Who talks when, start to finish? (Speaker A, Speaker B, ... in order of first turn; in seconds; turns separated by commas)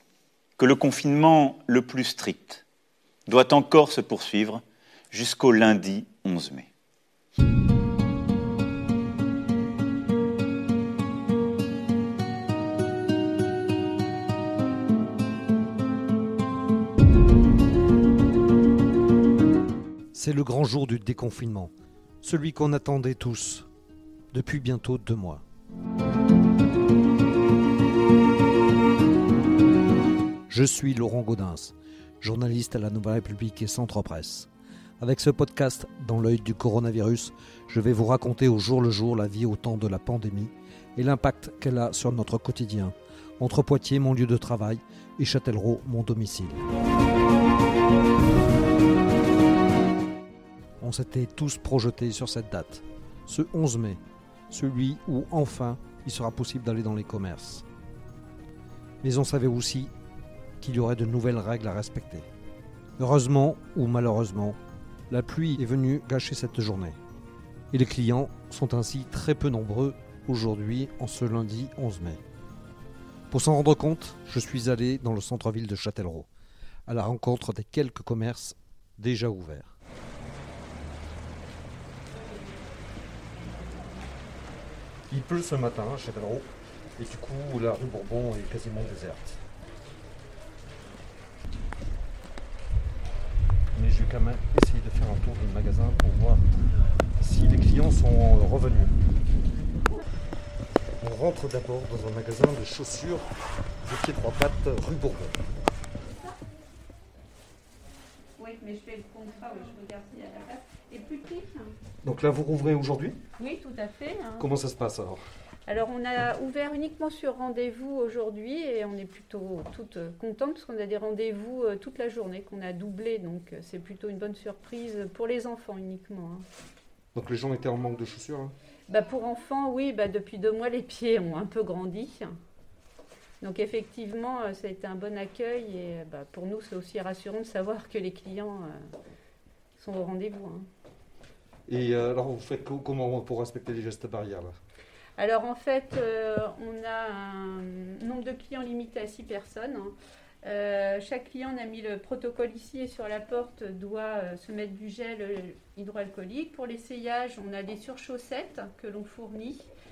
Speaker A: 0.6-2.6, Speaker A: 3.3-4.6, Speaker A: 5.1-6.7, Speaker B: 20.1-21.7, Speaker B: 22.2-23.7, Speaker B: 24.3-25.4, Speaker B: 30.5-34.5, Speaker B: 35.0-46.7, Speaker B: 50.8-54.0, Speaker B: 54.5-57.6, Speaker B: 59.0-59.9, Speaker B: 60.6-62.2, Speaker B: 63.0-64.6, Speaker B: 65.1-67.0, Speaker B: 67.7-72.2, Speaker B: 73.3-76.3, Speaker B: 76.9-79.7, Speaker B: 85.1-89.4, Speaker B: 93.7-96.5, Speaker B: 97.2-98.9, Speaker B: 101.0-103.2, Speaker B: 103.8-105.4, Speaker C: 108.4-111.7, Speaker B: 112.0-113.2, Speaker C: 113.4-114.5, Speaker B: 114.4-115.2, Speaker C: 115.7-126.4, Speaker B: 127.1-128.5, Speaker C: 128.9-132.3, Speaker C: 133.4-138.8, Speaker C: 139.8-140.7, Speaker B: 141.7-144.6, Speaker C: 145.2-149.9, Speaker C: 150.4-159.7